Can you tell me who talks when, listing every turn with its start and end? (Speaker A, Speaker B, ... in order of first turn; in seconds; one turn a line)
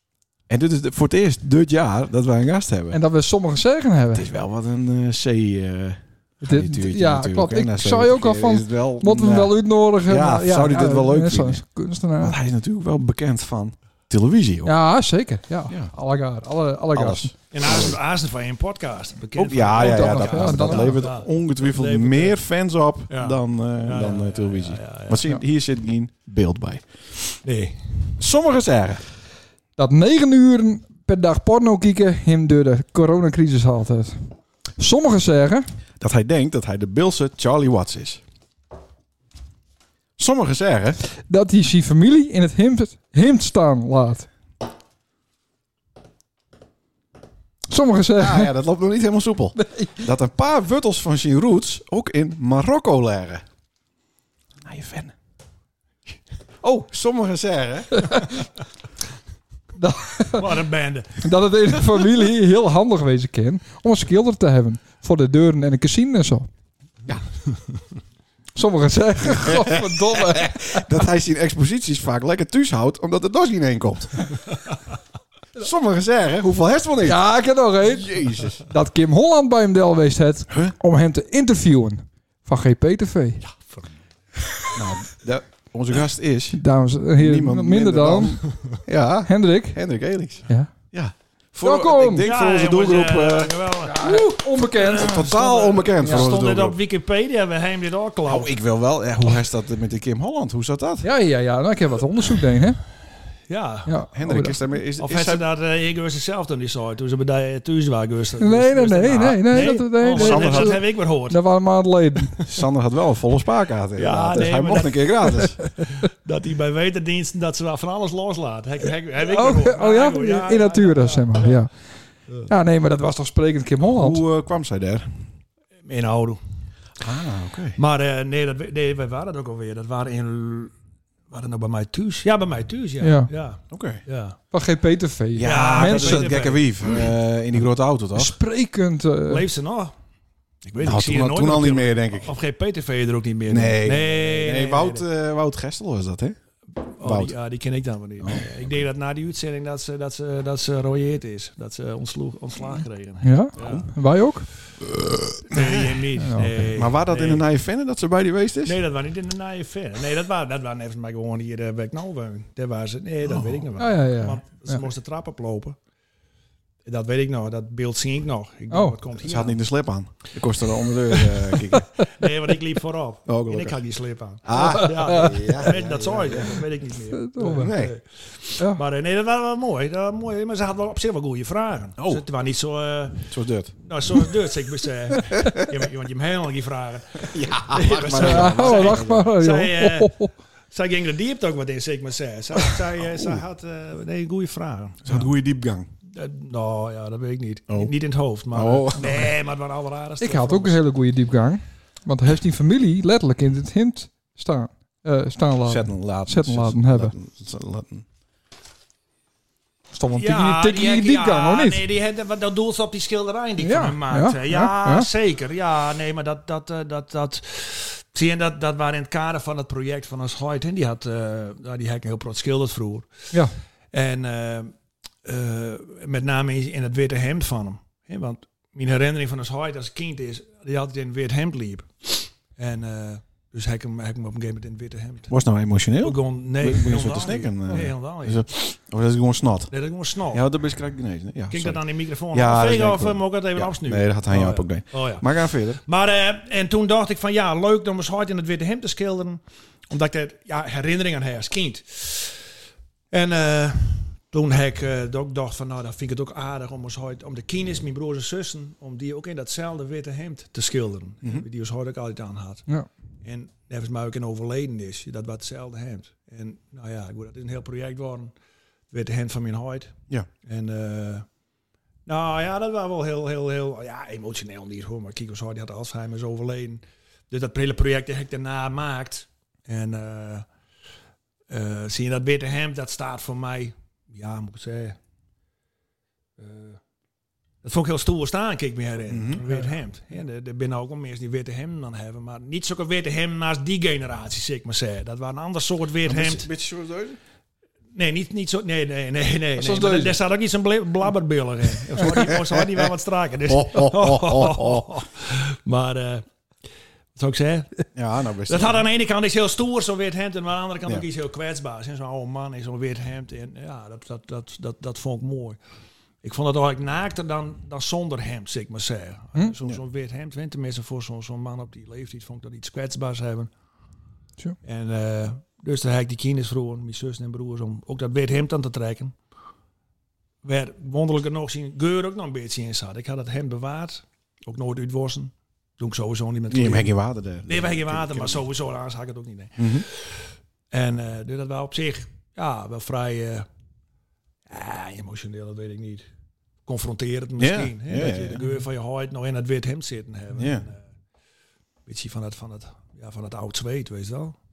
Speaker A: 0.5-3.0
Speaker B: 2.9-4.3
Speaker A: 4.2-11.6
Speaker B: 6.4-12.4
Speaker A: 12.2-14.8
Speaker B: 14.7-17.3
Speaker A: 15.7-15.9
Speaker A: 16.9-18.0
Speaker C: 17.5-22.4
Speaker A: 19.4-26.9
Speaker B: 19.8-21.1
Speaker C: 23.1-25.2
Speaker C: 27.4-27.8
Speaker A: 28.2-29.0
Speaker B: 29.8-35.7
Speaker A: 36.0-38.2
Speaker A: 40.2-41.0
Speaker B: 41.2-44.3
Speaker B: 47.7-48.5
Speaker A: 48.2-53.4
Speaker B: 49.6-50.1
Speaker A: 54.6-55.1
Speaker A: 56.6-58.3
Speaker B: 58.0-58.3
Speaker B: 59.8-60.6
Speaker C: 60.4-61.2
Speaker B: 61.2-66.5
Speaker B: 68.5-71.0
Speaker A: 69.4-74.4
Speaker A: 75.6-77.3
Speaker B: 77.0-83.4
Speaker A: 77.8-78.7
Speaker A: 80.5-80.8
Speaker C: 83.4-83.9
Speaker A: 84.8-86.6
Speaker B: 86.5-88.4
Speaker A: 87.2-93.5
Speaker B: 89.3-89.8
Speaker B: 91.6-92.3
Speaker C: 92.2-98.5
Speaker B: 93.8-95.3
Speaker A: 95.0-96.8
Speaker A: 98.3-101.1
Speaker B: 101.0-102.8
Speaker C: 103.5-104.0
Speaker B: 103.9-104.6
Speaker A: 104.1-105.4
Speaker C: 105.0-111.5
Speaker B: 108.4-112.4
Speaker A: 110.1-110.8
Speaker A: 112.4-115.6
Speaker C: 114.0-121.7
Speaker B: 119.2-124.2
Speaker A: 123.8-125.1
Speaker C: 125.8-126.4
Speaker A: 127.0-127.8
Speaker C: 127.8-130.7
Speaker C: 131.3-134.4
Speaker B: 133.0-133.3
Speaker A: 133.7-134.0
Speaker B: 134.5-136.4
Speaker A: 135.4-138.4
Speaker C: 135.4-136.7
Speaker B: 138.2-139.5
Speaker C: 139.3-139.9
Speaker C: 140.7-145.0
Speaker A: 140.8-142.3
Speaker A: 143.5-146.4
Speaker C: 147.0-153.9
Speaker A: 147.0-147.3
Speaker A: 148.2-148.8
Speaker B: 153.2-154.5
Speaker A: 153.6-153.9
Speaker A: 155.0-156.0
Speaker C: 155.5-157.4
Speaker B: 156.2-156.7
Speaker A: 156.8-158.8
Speaker C: 158.7-165.8
Speaker A: 163.3-163.7
Speaker B: 163.8-164.8
Speaker C: 166.8-169.6
Speaker B: 168.7-169.0
Speaker A: 169.2-171.9
Speaker C: 171.1-171.4
Speaker C: 172.0-183.3
Speaker A: 173.3-173.8
Speaker A: 174.4-176.6
Speaker B: 174.6-175.7
Speaker B: 177.1-177.8
Speaker A: 177.4-177.9
Speaker A: 182.0-182.2
Speaker A: 183.3-183.8
Speaker C: 183.8-195.2
Speaker A: 185.4-185.6
Speaker A: 187.2-189.2
Speaker B: 188.2-190.3
Speaker A: 195.1-195.9
Speaker C: 196.1-200.8
Speaker A: 198.5-199.3
Speaker B: 200.2-207.1
Speaker A: 205.7-208.1
Speaker B: 209.9-211.8
Speaker C: 210.1-223.3
Speaker B: 213.6-215.1
Speaker C: 223.9-224.7
Speaker C: 225.2-235.3
Speaker A: 235.3-239.7
Speaker C: 236.0-238.5
Speaker C: 239.7-240.4
Speaker A: 240.3-245.8
Speaker C: 241.5-252.5
Speaker C: 253.1-262.7
Speaker C: 263.2-268.3
Speaker C: 268.9-271.3
Speaker C: 272.1-280.4
Speaker C: 281.5-285.0
Speaker C: 286.4-286.8
Speaker C: 287.6-296.5
Speaker A: 289.1-289.7
Speaker A: 296.1-297.2
Speaker C: 297.9-306.3
Speaker B: 299.7-300.0
Speaker A: 302.0-302.8
Speaker A: 303.5-305.0
Speaker C: 307.1-307.9
Speaker A: 307.9-308.9
Speaker C: 308.5-315.6
Speaker C: 316.2-323.5
Speaker C: 324.6-329.1
Speaker C: 330.4-336.9
Speaker A: 336.5-338.4
Speaker C: 337.5-343.5
Speaker A: 339.6-339.9
Speaker C: 344.5-346.1
Speaker C: 346.7-350.9
Speaker A: 347.4-348.4
Speaker A: 350.4-350.7
Speaker C: 351.9-354.4